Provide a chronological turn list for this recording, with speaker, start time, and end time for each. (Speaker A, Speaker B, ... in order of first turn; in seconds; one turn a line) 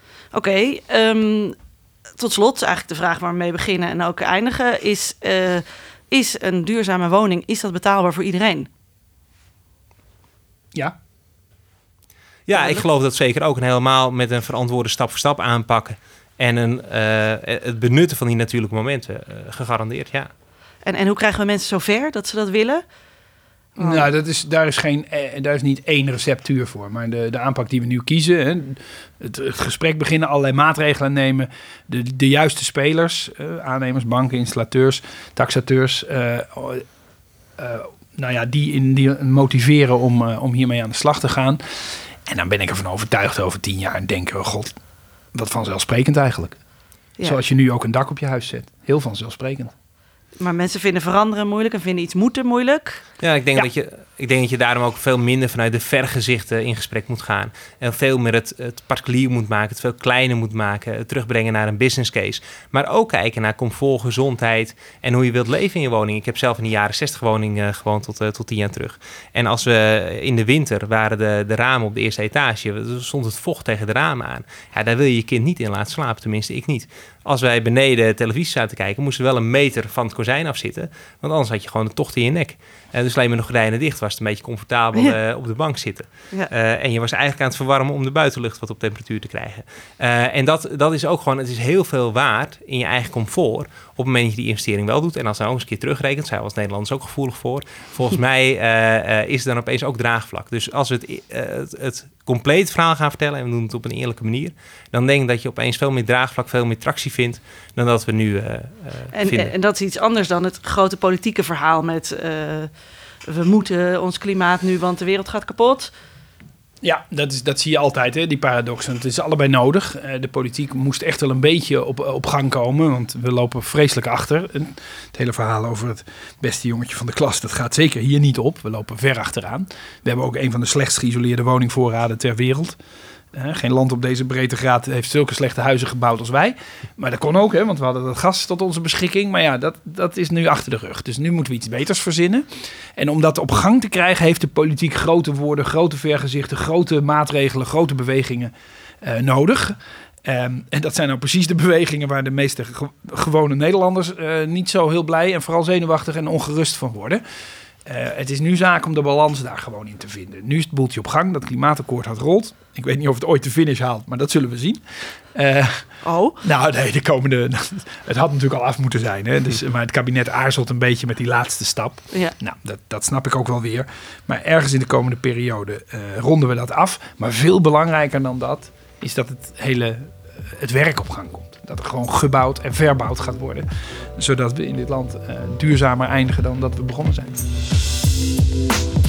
Speaker A: 0.3-1.6
Speaker A: 2.2-8.7
Speaker B: 12.5-20.3
Speaker A: 12.5-12.8
Speaker A: 20.9-22.8
Speaker C: 23.8-36.9
Speaker A: 23.8-24.1
Speaker C: 37.6-44.8
Speaker C: 45.3-46.6
Speaker C: 47.2-49.7
Speaker A: 50.4-53.0
Speaker B: 53.2-109.5
Speaker A: 109.1-112.7
Speaker A: 113.3-115.9
Speaker C: 116.8-132.8
Speaker C: 133.3-157.2
Speaker C: 157.8-165.9
Speaker A: 166.0-166.4
Speaker C: 166.4-187.5